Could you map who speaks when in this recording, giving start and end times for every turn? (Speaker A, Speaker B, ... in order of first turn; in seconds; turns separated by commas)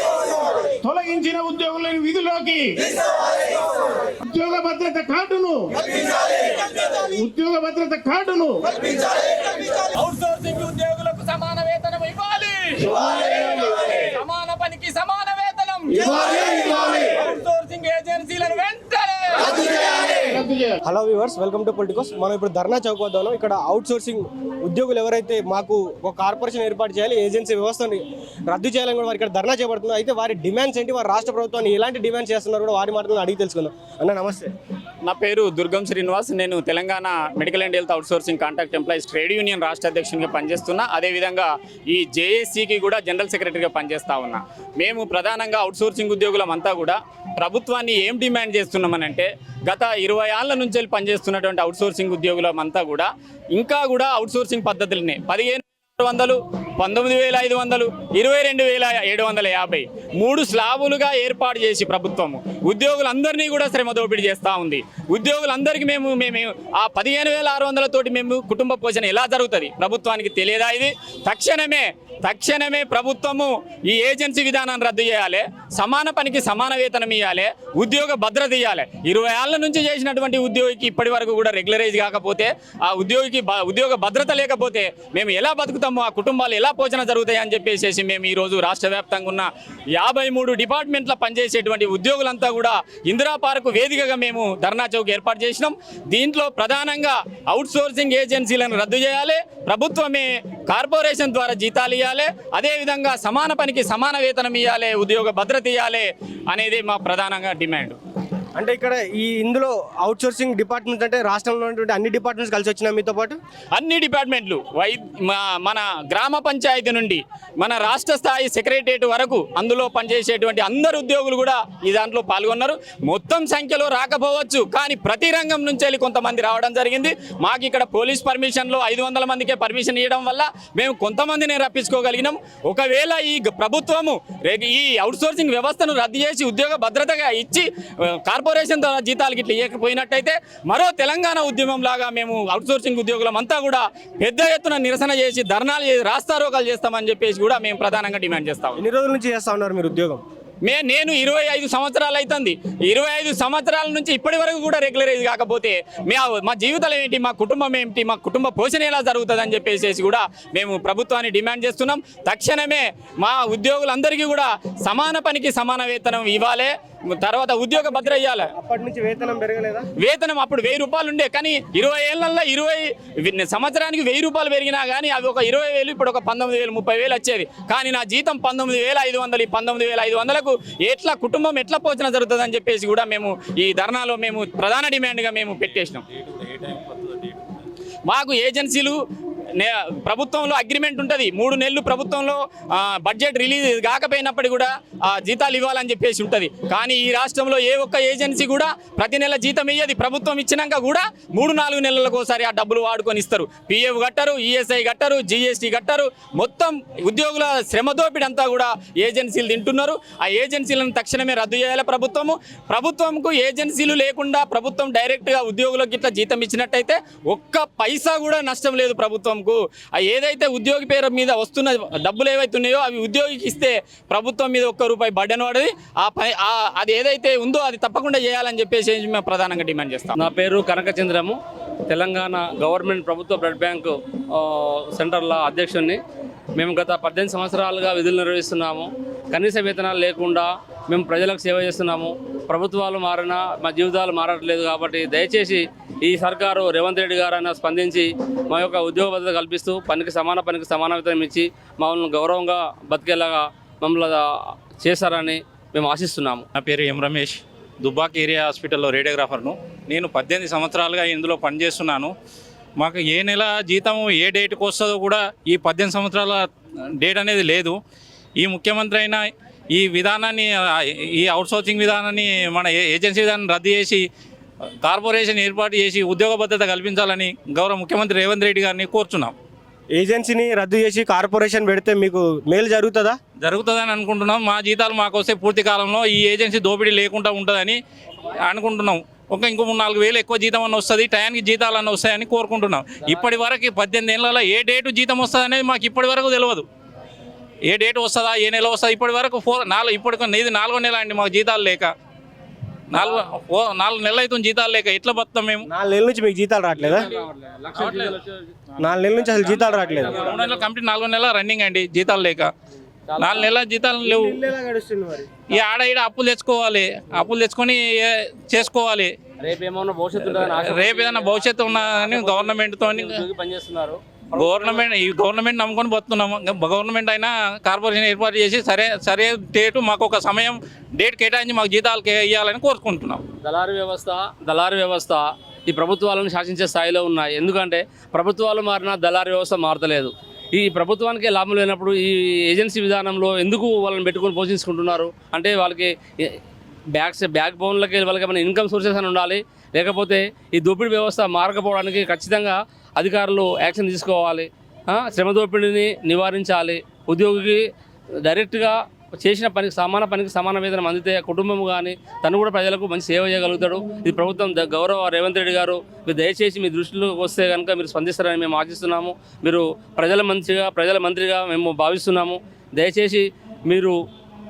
Speaker A: 0.7-2.9, Speaker A: 4.2-5.9, Speaker A: 7.0-8.7, Speaker B: 8.9-20.1, Speaker A: 16.0-16.4, Speaker A: 20.4-20.7, Speaker C: 20.8-34.5, Speaker B: 35.0-108.0, Speaker C: 108.5-113.4, Speaker B: 113.7-137.7, Speaker B: 138.2-148.8, Speaker C: 148.8-150.2, Speaker B: 150.6-168.4, Speaker C: 167.7-169.9, Speaker B: 170.0-186.0, Speaker D: 186.3-187.2, Speaker B: 188.1-189.0, Speaker B: 189.6-230.2, Speaker E: 230.1-236.0, Speaker E: 236.6-254.2, Speaker E: 254.8-256.4, Speaker D: 256.5-262.1, Speaker D: 262.8-266.5, Speaker D: 267.0-267.8, Speaker D: 268.4-270.6, Speaker D: 271.2-274.0, Speaker D: 274.8-279.3, Speaker C: 279.9-283.2, Speaker D: 283.4-287.8, Speaker D: 288.4-296.6, Speaker D: 297.7-301.9, Speaker D: 302.9-305.6, Speaker C: 305.7-307.1, Speaker E: 306.9-308.5, Speaker D: 307.7-308.1, Speaker C: 308.8-310.3, Speaker D: 309.2-312.5, Speaker E: 309.8-310.6, Speaker E: 313.1-313.5, Speaker D: 313.2-314.4, Speaker C: 314.0-315.4, Speaker D: 315.5-319.1, Speaker E: 319.4-324.8, Speaker D: 320.2-323.2, Speaker D: 324.3-333.2, Speaker E: 333.4-346.3, Speaker E: 346.9-357.6, Speaker E: 358.2-373.9